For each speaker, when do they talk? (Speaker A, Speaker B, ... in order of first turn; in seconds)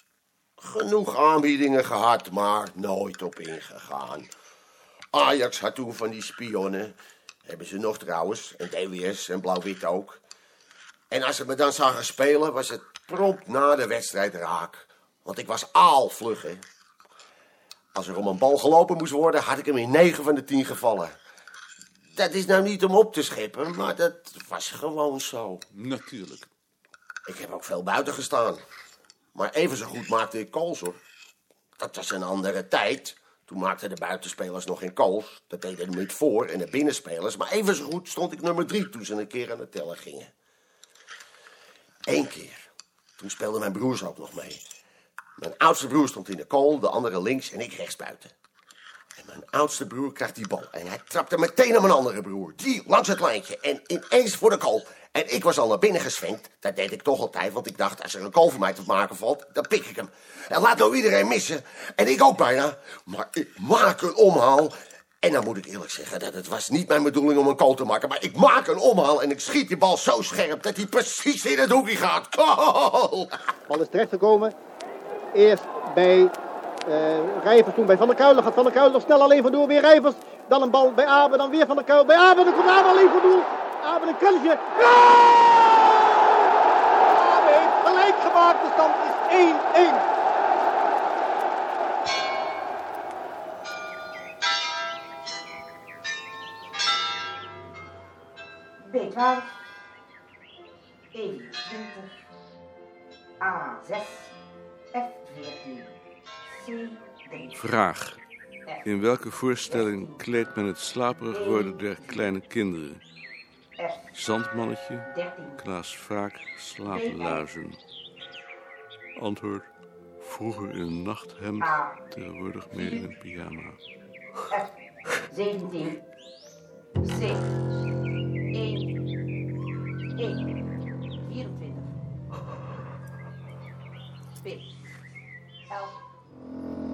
Speaker A: 0.6-4.3, 5.1-10.2, 11.1-16.6, 17.9-21.2, 22.1-25.6, 27.3-28.6, 29.4-31.0, 31.8-40.3, 42.1-44.6, 45.4-48.3, 49.2-73.5
Speaker B: 25.7-26.5, 107.5-108.2, 108.8-113.0, 114.1-117.8, 119.2-119.7, 120.2-123.8
Speaker C: 73.7-74.5, 75.3-76.3, 76.9-86.4, 87.1-90.1
Speaker D: 98.8-99.5, 101.1-102.1, 103.4-104.3, 104.9-105.9, 106.5-107.6, 109.7-110.2, 111.3-112.2, 115.1-115.6, 116.9-117.4, 121.6-121.9, 125.3-126.0, 127.0-127.5, 128.5-128.9, 130.2-130.5, 131.2-132.0, 134.4-134.7, 135.7-136.0